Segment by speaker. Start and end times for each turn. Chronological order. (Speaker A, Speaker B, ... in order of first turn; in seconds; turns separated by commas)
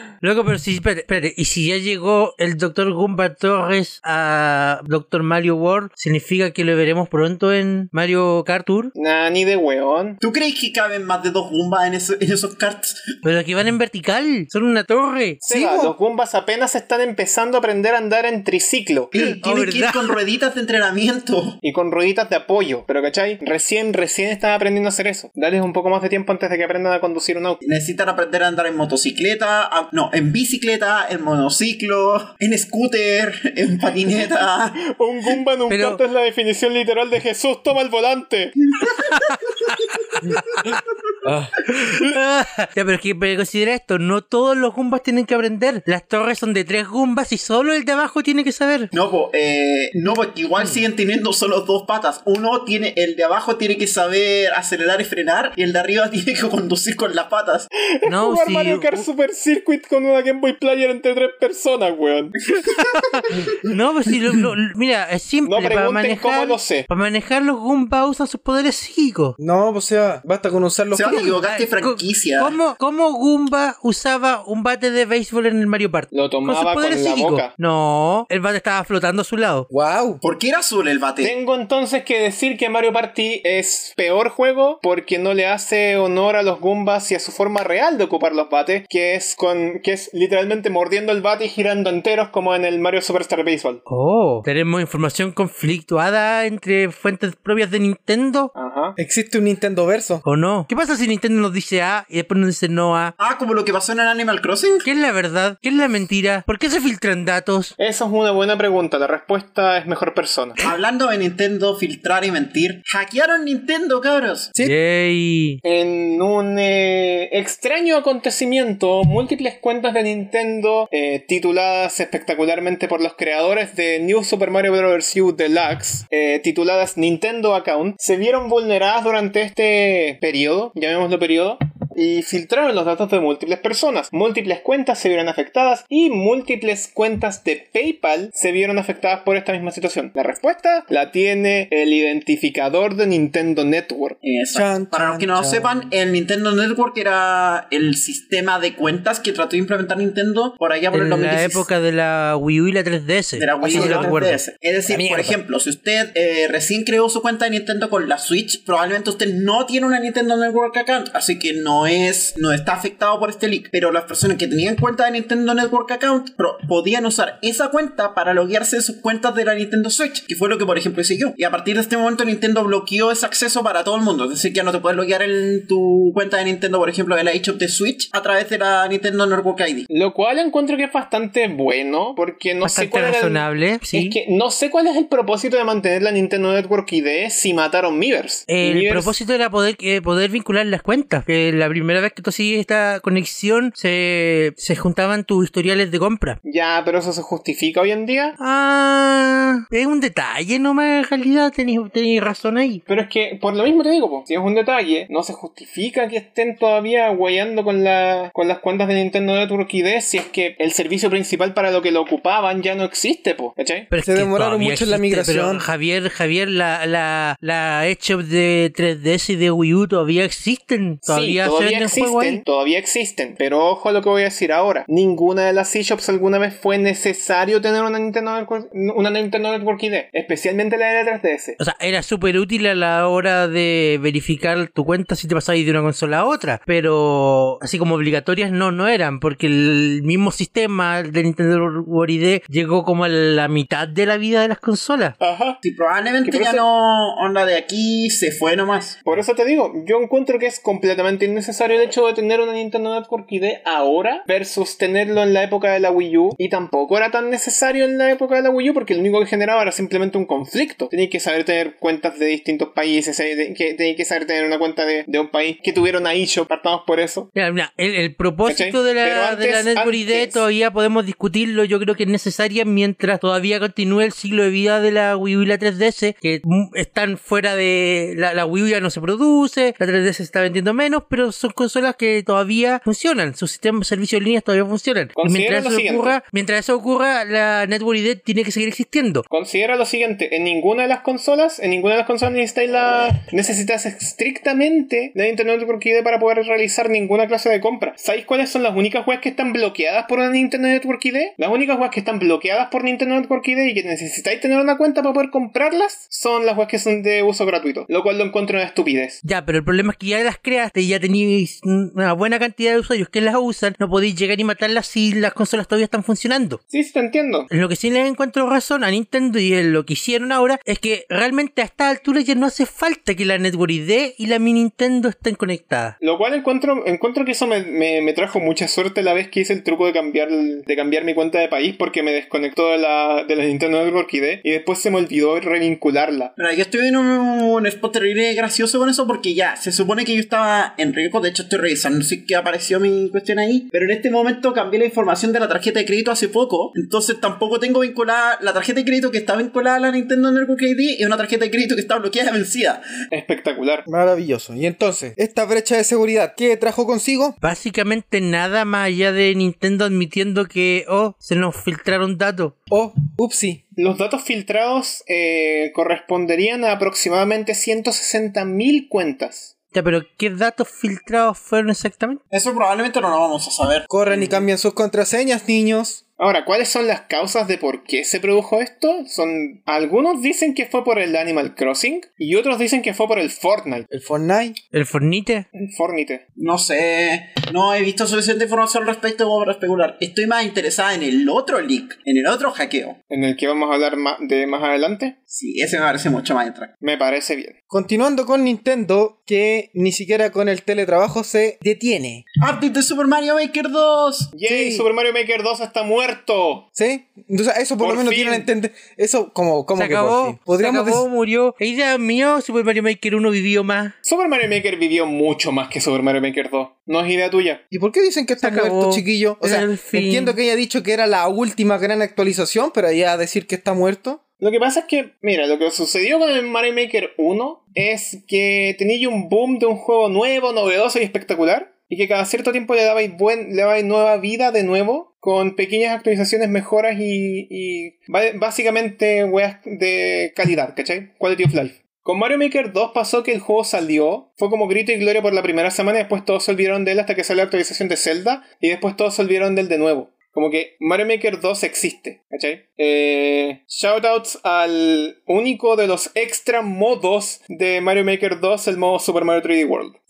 Speaker A: 0.2-8.9, Speaker B: 8.9-10.2, Speaker C: 10.2-13.1, Speaker A: 13.2-15.4, Speaker B: 15.4-19.1, Speaker D: 15.4-15.9, Speaker C: 19.1-21.6, Speaker A: 19.2-20.1, Speaker B: 21.6-27.6, Speaker C: 27.6-34.8, Speaker B: 34.9-38.6, Speaker A: 35.7-36.0, Speaker C: 38.8-39.3, Speaker A: 39.1-39.4, Speaker A: 40.2-48.9, Speaker C: 40.3-40.8, Speaker C: 48.9-57.7, Speaker B: 58.0-62.4, Speaker A: 58.1-59.0, Speaker A: 62.6-69.4, Speaker C: 62.7-63.3, Speaker B: 65.4-66.9, Speaker D: 69.4-71.4, Speaker C: 70.9-72.6, Speaker A: 71.1-79.7, Speaker B: 76.1-77.5, Speaker D: 79.7-80.2, Speaker C: 80.2-81.3, Speaker B: 81.2-93.8, Speaker A: 93.9-98.5, Speaker B: 98.5-99.0, Speaker D: 99.0-100.2, Speaker A: 100.2-103.1, Speaker C: 103.2-104.9, Speaker A: 104.8-107.7, Speaker B: 107.8-110.6, Speaker C: 110.6-114.5, Speaker A: 114.6-115.6, Speaker B: 115.6-144.2, Speaker C: 144.2-151.7, Speaker D: 144.5-145.7, Speaker A: 150.9-154.4, Speaker C: 153.4-179.9, Speaker D: 153.6-154.2, Speaker D: 154.9-155.4, Speaker B: 179.9-189.2, Speaker A: 182.6-184.2, Speaker A: 188.5-196.4, Speaker B: 196.4-198.4, Speaker A: 198.4-202.8, Speaker B: 202.9-213.9, Speaker A: 213.9-222.4, Speaker D: 214.0-215.7, Speaker B: 221.1-231.6, Speaker A: 231.6-245.2, Speaker B: 245.2-245.6, Speaker C: 245.6-249.0, Speaker B: 246.2-246.6, Speaker B: 249.1-267.3, Speaker A: 267.4-289.2, Speaker B: 268.5-270.4, Speaker B: 285.2-286.2, Speaker B: 289.3-309.2, Speaker A: 309.2-316.6, Speaker B: 316.7-317.5, Speaker A: 317.5-326.0, Speaker B: 326.0-336.3, Speaker C: 336.4-352.8, Speaker B: 353.1-353.9, Speaker D: 353.9-357.4, Speaker A: 357.4-362.6, Speaker D: 362.7-363.6, Speaker B: 363.8-369.5, Speaker A: 369.7-372.2, Speaker C: 372.3-374.4, Speaker D: 373.9-376.0, Speaker B: 376.2-383.9, Speaker D: 383.9-384.6, Speaker A: 384.7-385.5, Speaker B: 385.6-386.2, Speaker C: 386.4-393.0, Speaker B: 393.1-395.2, Speaker C: 395.3-396.7, Speaker B: 396.8-397.6, Speaker D: 397.7-402.2, Speaker C: 402.4-404.3, Speaker B: 404.4-406.7, Speaker D: 404.5-404.9, Speaker D: 406.8-411.1, Speaker B: 407.8-408.5, Speaker A: 409.8-413.9, Speaker B: 414.0-417.6, Speaker D: 417.7-424.2, Speaker A: 418.4-420.4, Speaker B: 424.4-460.0